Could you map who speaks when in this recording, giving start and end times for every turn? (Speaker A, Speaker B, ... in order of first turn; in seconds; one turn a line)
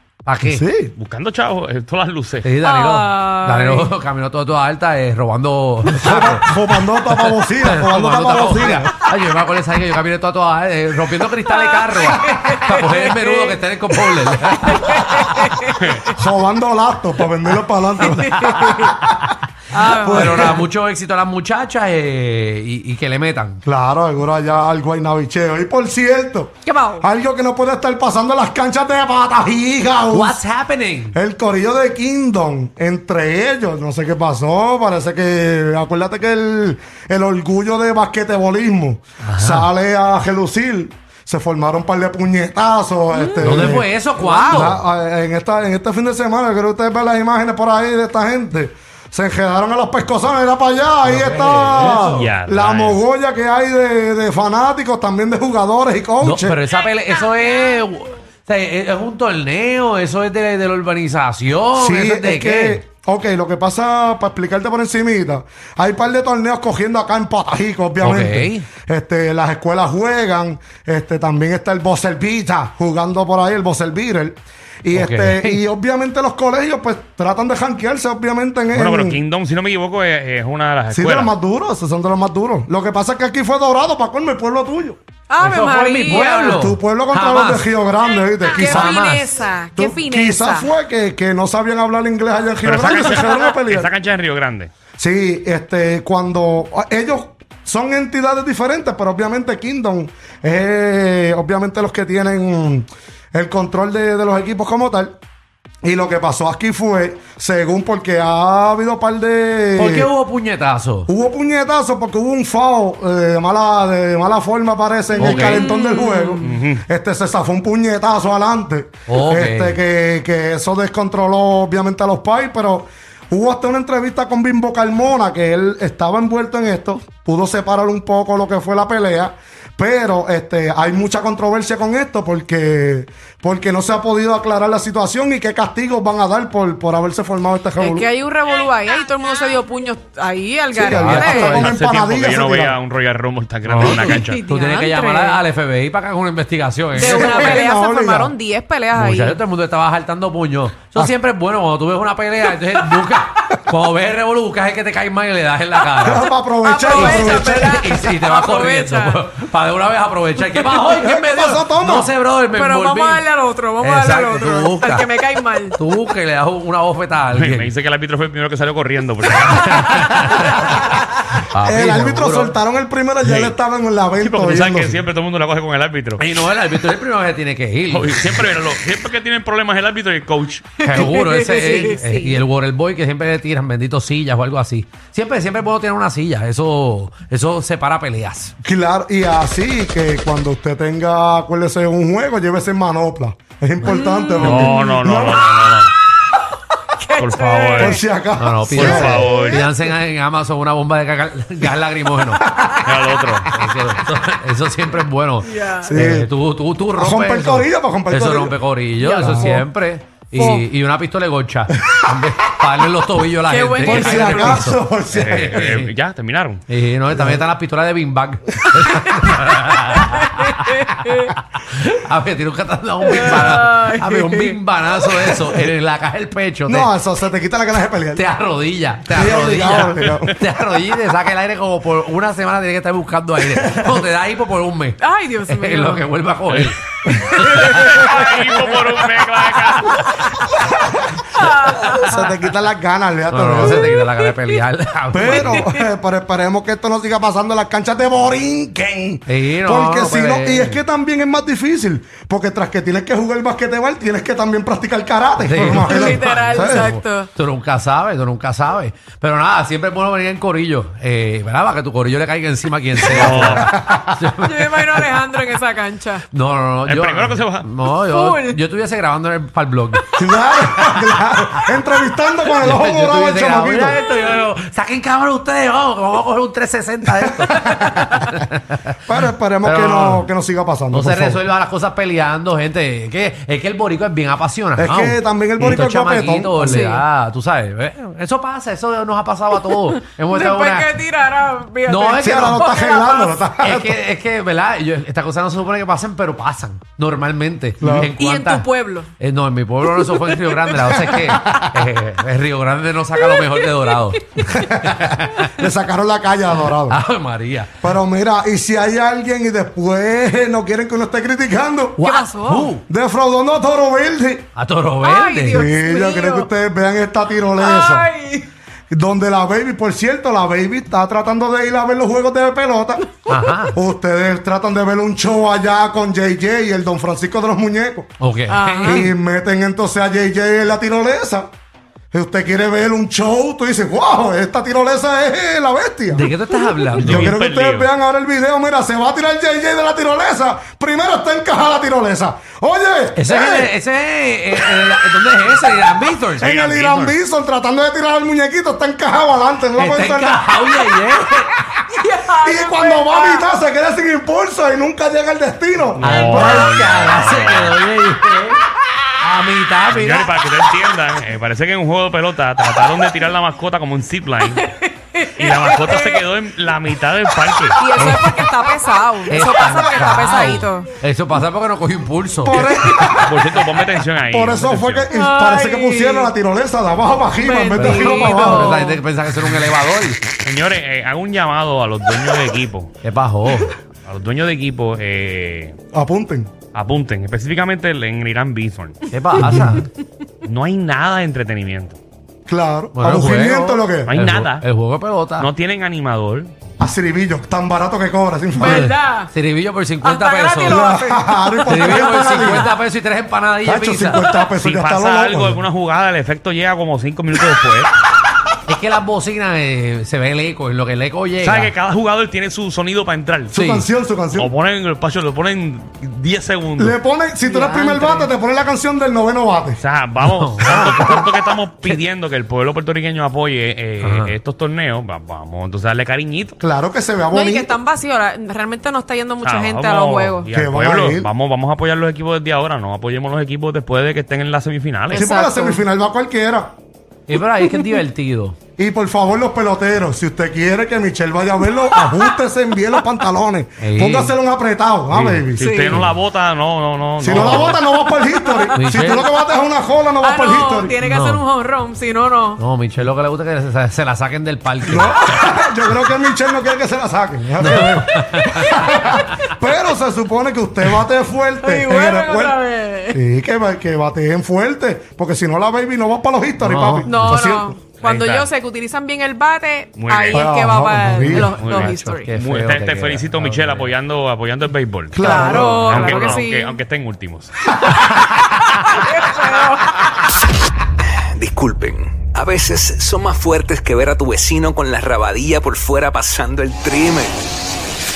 Speaker A: 0.2-0.6
Speaker B: 0.4-0.9
Speaker C: 0.9-2.5
Speaker A: 2.4-6.5
Speaker D: 2.6-3.9
Speaker B: 5.9-9.0
Speaker A: 7.1-15.6
Speaker D: 11.7-13.5
Speaker D: 14.6-16.1
Speaker C: 15.8-16.1
Speaker B: 16.1-20.7
Speaker D: 18.0-19.0
Speaker D: 19.7-20.6
Speaker A: 20.0-23.6
Speaker B: 23.6-30.4
Speaker D: 26.6-27.0
Speaker A: 30.1-31.2
Speaker B: 31.1-43.9
Speaker A: 39.2-39.7
Speaker D: 43.1-43.5
Speaker A: 43.4-44.8
Speaker D: 44.2-44.7
Speaker B: 44.5-56.6
Speaker A: 51.0-52.3
Speaker C: 51.9-53.0
Speaker A: 56.2-62.8
Speaker B: 61.8-79.2
Speaker A: 68.0-68.7
Speaker A: 74.9-75.6
Speaker C: 78.7-81.3
Speaker B: 80.9-85.0
Speaker D: 85.3-86.7
Speaker A: 85.4-87.7
Speaker B: 86.1-89.1
Speaker D: 88.4-90.7
Speaker A: 88.8-89.3
Speaker B: 89.8-93.9
Speaker C: 92.6-94.7
Speaker B: 95.0-105.1
Speaker B: 105.8-110.1
Speaker A: 109.8-111.1
Speaker B: 111.1-138.1
Speaker A: 115.2-115.7
Speaker D: 115.2-116.4
Speaker C: 116.4-116.8
Speaker A: 119.1-119.8
Speaker D: 137.8-141.6
Speaker B: 140.7-142.8
Speaker A: 140.9-141.8
Speaker C: 141.5-144.4
Speaker A: 143.6-147.2
Speaker D: 143.8-145.4
Speaker D: 146.9-149.4
Speaker B: 146.9-148.3
Speaker A: 148.9-156.3
Speaker D: 155.8-159.2
Speaker B: 156.0-157.8
Speaker A: 156.9-163.2
Speaker B: 160.9-162.1
Speaker D: 162.5-165.8
Speaker A: 163.8-165.1
Speaker A: 165.8-167.7
Speaker C: 167.3-170.5
Speaker A: 169.6-172.6
Speaker D: 169.8-170.1
Speaker B: 171.6-175.0
Speaker C: 173.2-173.6
Speaker C: 174.2-176.4
Speaker A: 176.2-178.5
Speaker C: 177.9-181.0
Speaker D: 180.8-182.3
Speaker A: 180.8-188.5
Speaker B: 188.6-195.7
Speaker D: 193.8-194.9
Speaker C: 194.4-195.9
Speaker D: 196.9-198.0
Speaker C: 197.2-198.0
Speaker B: 197.8-199.7
Speaker A: 198.4-202.5
Speaker C: 198.7-199.7
Speaker B: 202.3-203.0
Speaker C: 202.8-203.5
Speaker A: 203.5-215.9
Speaker D: 205.4-205.9
Speaker B: 205.8-206.3
Speaker B: 206.9-209.6
Speaker D: 209.3-209.6
Speaker D: 210.3-210.7
Speaker D: 213.4-214.5
Speaker B: 213.8-215.5
Speaker C: 215.1-216.6
Speaker A: 216.7-226.9
Speaker B: 217.1-217.4
Speaker D: 220.0-221.3
Speaker D: 223.0-224.6
Speaker B: 226.7-228.2
Speaker A: 228.1-237.8
Speaker B: 229.1-230.4
Speaker C: 229.6-230.3
Speaker B: 233.6-233.9
Speaker D: 235.0-236.1
Speaker C: 236.5-240.2
Speaker D: 237.3-239.0
Speaker D: 239.7-240.7
Speaker D: 241.3-242.2
Speaker B: 242.0-243.9
Speaker A: 243.3-245.7
Speaker D: 243.8-244.6
Speaker B: 245.1-256.9
Speaker A: 249.3-250.8
Speaker A: 255.4-265.4
Speaker D: 255.8-257.3
Speaker C: 263.1-263.7
Speaker B: 263.3-264.0
Speaker D: 264.4-266.2
Speaker A: 266.3-270.0
Speaker C: 266.8-267.7
Speaker D: 267.9-268.6
Speaker B: 270.1-274.0
Speaker A: 270.6-271.0
Speaker A: 272.5-279.0
Speaker B: 279.0-281.4
Speaker A: 279.6-280.3
Speaker A: 280.9-291.0
Speaker B: 284.8-286.9
Speaker D: 286.6-287.0
Speaker D: 289.8-293.4
Speaker A: 291.9-292.5
Speaker B: 292.2-294.0
Speaker A: 293.6-298.7
Speaker B: 297.8-298.1
Speaker D: 298.1-299.1
Speaker A: 299.2-305.5
Speaker D: 299.9-301.7
Speaker D: 303.1-304.7
Speaker B: 304.7-307.0
Speaker A: 306.7-307.8
Speaker B: 307.8-312.0
Speaker A: 312.0-312.8
Speaker D: 312.0-312.7
Speaker B: 312.9-314.4
Speaker A: 314.6-315.7
Speaker D: 315.0-316.5
Speaker B: 315.5-318.1
Speaker D: 317.6-318.5
Speaker B: 318.9-323.1
Speaker A: 323.3-323.8
Speaker B: 323.7-328.1
Speaker A: 328.2-329.1
Speaker D: 328.5-329.1
Speaker B: 328.8-331.5
Speaker B: 332.1-336.4
Speaker A: 336.1-337.4
Speaker C: 337.0-337.9
Speaker B: 337.0-343.7
Speaker A: 343.1-346.5
Speaker B: 346.4-351.0
Speaker C: 346.4-347.1
Speaker A: 349.8-351.8
Speaker D: 351.9-353.5
Speaker B: 352.4-356.7
Speaker C: 356.0-357.8
Speaker A: 356.0-358.6
Speaker A: 359.2-360.4
Speaker C: 359.9-364.7
Speaker D: 364.5-366.3
Speaker C: 365.3-367.9
Speaker D: 367.6-370.9
Speaker A: 367.9-368.5
Speaker A: 369.3-372.8
Speaker B: 372.4-373.6
Speaker D: 372.6-373.2
Speaker C: 373.2-375.1
Speaker B: 374.3-378.9
Speaker D: 375.1-376.3
Speaker D: 377.4-379.0
Speaker A: 377.7-380.2
Speaker C: 380.4-382.9
Speaker A: 383.0-383.7
Speaker C: 384.0-385.8
Speaker B: 385.9-386.5
Speaker C: 386.7-389.0
Speaker A: 389.1-389.9
Speaker B: 389.4-389.8
Speaker C: 390.4-392.0
Speaker B: 392.5-394.2
Speaker A: 392.9-395.5
Speaker C: 394.1-394.6
Speaker C: 395.4-396.5
Speaker B: 396.8-398.9
Speaker A: 398.6-400.9
Speaker D: 398.6-399.3
Speaker D: 400.0-402.3
Speaker B: 400.6-402.7
Speaker A: 401.6-404.3
Speaker B: 403.6-405.6
Speaker C: 404.6-407.9
Speaker A: 408.7-411.7
Speaker C: 411.4-413.6
Speaker B: 413.5-414.5
Speaker A: 413.5-413.9
Speaker C: 414.3-417.0
Speaker B: 416.8-419.8
Speaker D: 417.4-418.3
Speaker C: 419.8-426.6
Speaker A: 420.2-422.0
Speaker B: 420.6-421.1
Speaker A: 424.0-424.3
Speaker B: 426.6-427.7
Speaker D: 427.3-430.5
Speaker C: 429.4-435.3
Speaker B: 430.5-431.3
Speaker D: 435.1-435.8
Speaker B: 435.1-436.7
Speaker A: 437.3-438.6
Speaker D: 437.6-438.0
Speaker B: 438.8-445.8
Speaker A: 443.8-444.3
Speaker C: 445.1-447.8
Speaker A: 445.2-446.1
Speaker D: 445.6-446.1
Speaker B: 447.2-451.0
Speaker A: 447.3-447.8
Speaker D: 448.3-449.2
Speaker A: 448.7-449.3
Speaker D: 450.2-452.6
Speaker A: 451.0-451.4
Speaker A: 452.6-455.3
Speaker B: 454.8-462.6
Speaker A: 457.6-459.2
Speaker D: 461.6-463.2
Speaker B: 463.1-467.8
Speaker A: 466.6-467.2
Speaker D: 467.0-472.4
Speaker C: 468.0-468.5
Speaker C: 470.0-470.5
Speaker B: 470.3-471.6
Speaker C: 471.3-477.8
Speaker A: 471.6-473.9
Speaker B: 475.1-476.4
Speaker D: 475.2-476.8
Speaker D: 477.8-480.2
Speaker E: 481.3-487.4